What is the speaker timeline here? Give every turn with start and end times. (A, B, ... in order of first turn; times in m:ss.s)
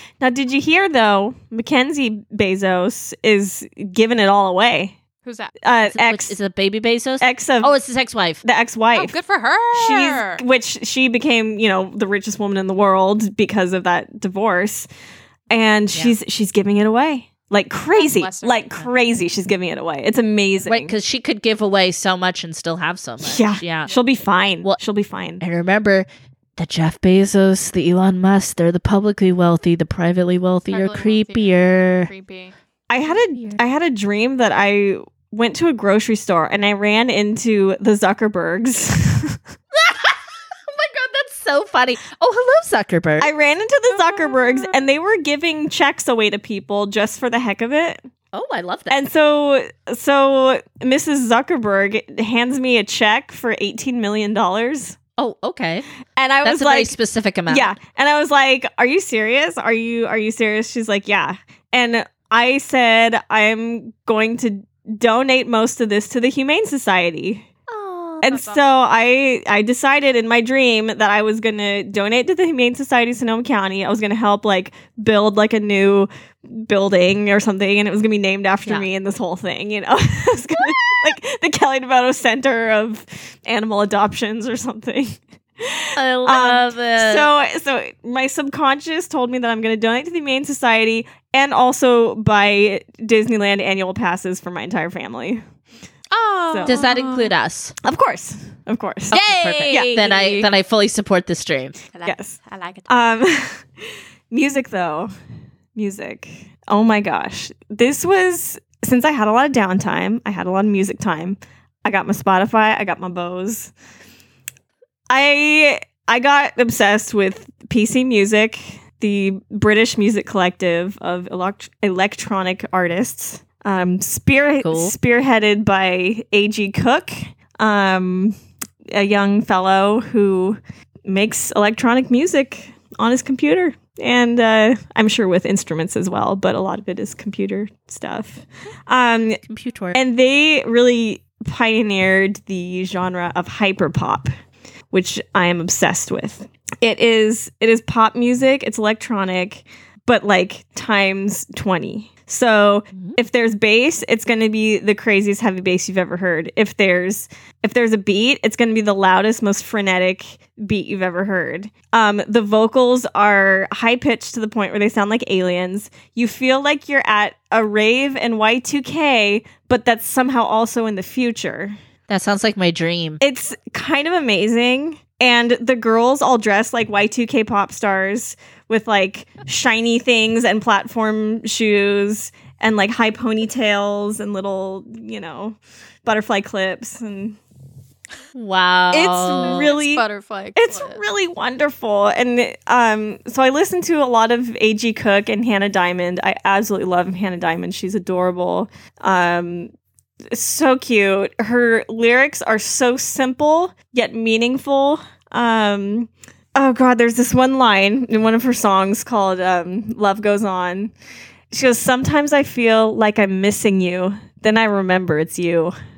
0:00.2-0:05.0 A
0:05.2-0:05.5 B
0:05.6-0:06.4 A
0:05.9-0:08.4 C
0:07.2-0:07.7 A
0:08.4-0:09.2 A
0:08.9-0:10.4 B
0:09.7-0:14.9 A
0:15.5-0:20.9 A
0:17.9-0:18.6 B
0:20.7-0:23.9 C
0:23.2-0:25.4 A
0:25.4-0:32.1 C
0:30.7-0:32.6 B
0:32.9-0:39.4 A
0:33.1-0:33.6 C
0:39.7-0:43.3 C
0:43.2-0:48.1 A
0:48.3-0:49.0 C
0:48.9-0:55.0 A
0:55.2-0:55.8 C
0:56.2-0:57.0 A
0:56.4-0:57.8 C
0:57.5-1:07.5 A
1:07.7-1:08.3 C
1:08.2-1:35.4 A
1:08.3-1:08.6 B
1:26.0-1:27.3 C
1:36.1-1:37.3 B
1:36.5-1:36.8 A
1:36.7-1:37.7 C
1:37.8-1:40.0 A
1:39.1-1:40.5 B
1:39.1-1:41.8 C
1:41.9-1:42.9 B
1:42.0-1:45.1 A
1:45.8-1:53.7 A
1:55.1-2:08.4 A
2:04.6-2:04.9 C
2:08.9-2:19.4 A
2:19.5-2:20.0 C
2:19.9-2:24.3 A
2:24.9-2:51.8 A
2:52.1-2:53.2 C
2:53.2-3:07.4 A
3:08.4-3:09.7 C
3:08.9-3:10.0 A
3:09.4-3:11.0 B
3:10.6-3:19.7 A
3:20.3-3:30.9 A
3:31.5-3:35.8 A